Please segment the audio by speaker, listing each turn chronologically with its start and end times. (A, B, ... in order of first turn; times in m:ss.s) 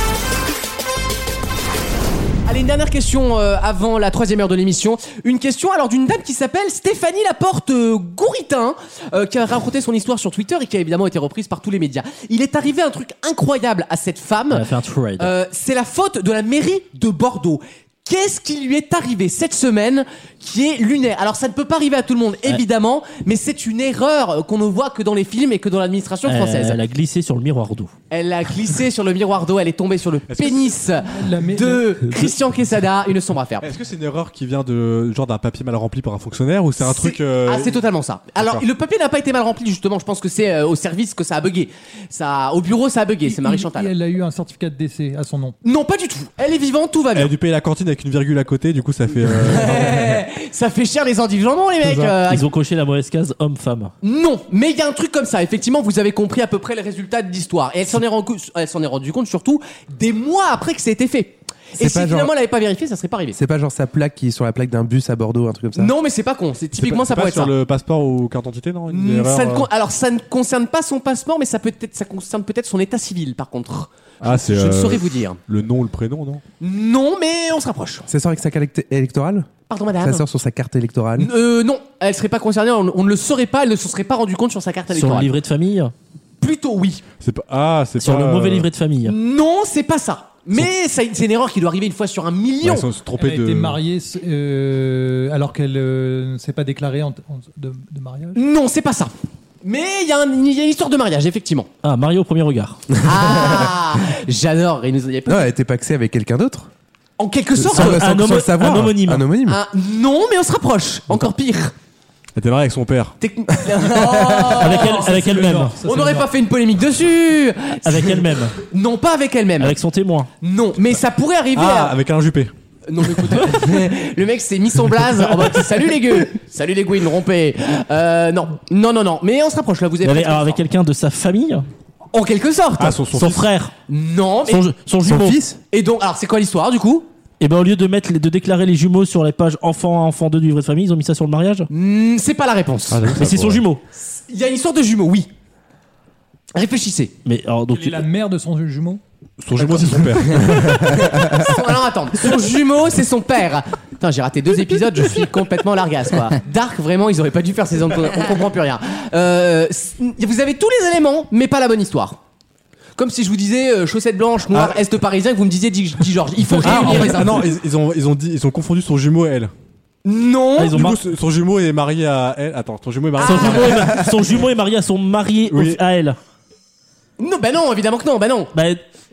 0:02.4-0:14.7 A
0:14.5-0:15.3 B
0:15.2-0:26.8 A
0:26.2-0:27.9 B
0:28.1-0:33.7 A
0:30.3-0:30.8 C
0:31.0-0:31.9 D
0:33.6-0:37.8 C
0:36.8-0:43.9 A
0:38.4-0:38.6 C
0:43.2-0:45.5 D
0:45.6-0:47.3 A
0:47.1-0:50.2 C
0:49.2-0:52.4 A
0:52.0-0:53.9 B
0:54.0-1:03.4 A
1:01.8-1:02.3 E
1:03.3-1:05.9 E
1:05.7-1:07.5 A
1:06.8-1:09.7 C
1:08.9-1:15.4 A
1:14.2-1:16.4 C
1:16.6-1:18.0 A
1:18.1-1:19.5 E
1:19.7-1:20.2 A
1:20.0-1:21.3 E
1:21.2-1:25.3 A
1:24.9-1:25.9 B
1:26.4-1:27.0 A
1:27.2-1:28.7 C
1:28.0-1:29.1 B
1:29.0-1:32.9 A
1:32.6-1:33.8 C
1:33.2-1:38.4 D
1:38.3-1:39.1 A
1:39.6-1:41.7 A
1:41.8-1:42.8 B
1:43.0-1:45.5 A
1:45.3-1:46.7 E
1:47.2-1:48.0 A
1:47.6-1:49.6 E
1:47.7-1:49.2 B
1:49.5-1:51.7 A
1:52.4-1:53.1 C
1:53.2-1:55.2 A
1:54.5-1:55.8 B
1:54.8-1:56.3 D
1:55.8-1:59.8 A
1:57.8-1:58.6 B
1:59.6-2:00.3 B
2:00.4-2:02.0 A
2:01.5-2:02.5 C
2:02.9-2:10.6 A
2:03.0-2:03.4 C
2:10.0-2:11.6 B
2:12.1-2:13.0 A
2:12.8-2:13.5 C
2:13.1-2:13.7 B
2:13.9-2:14.6 A
2:14.5-2:15.6 B
2:15.6-2:17.0 A
2:17.4-2:21.7 B
2:21.7-2:23.0 A
2:22.9-2:23.6 C
2:23.1-2:23.8 B
2:24.0-2:25.3 A
2:26.5-2:27.1 A
2:27.2-2:28.0 B
2:27.7-2:29.0 D
2:29.4-2:31.4 C
2:29.6-2:30.2 D
2:30.2-2:42.2 A
2:43.0-2:47.5 A
2:44.5-2:44.8 C
2:46.6-2:49.5 C
2:46.6-2:46.9 B
2:50.0-2:50.8 A
2:50.6-2:51.0 B
2:50.7-2:54.4 C
2:53.2-2:54.1 A
2:53.2-2:56.2 B
2:55.5-2:55.8 C
2:57.2-2:58.5 A
2:58.5-2:58.8 B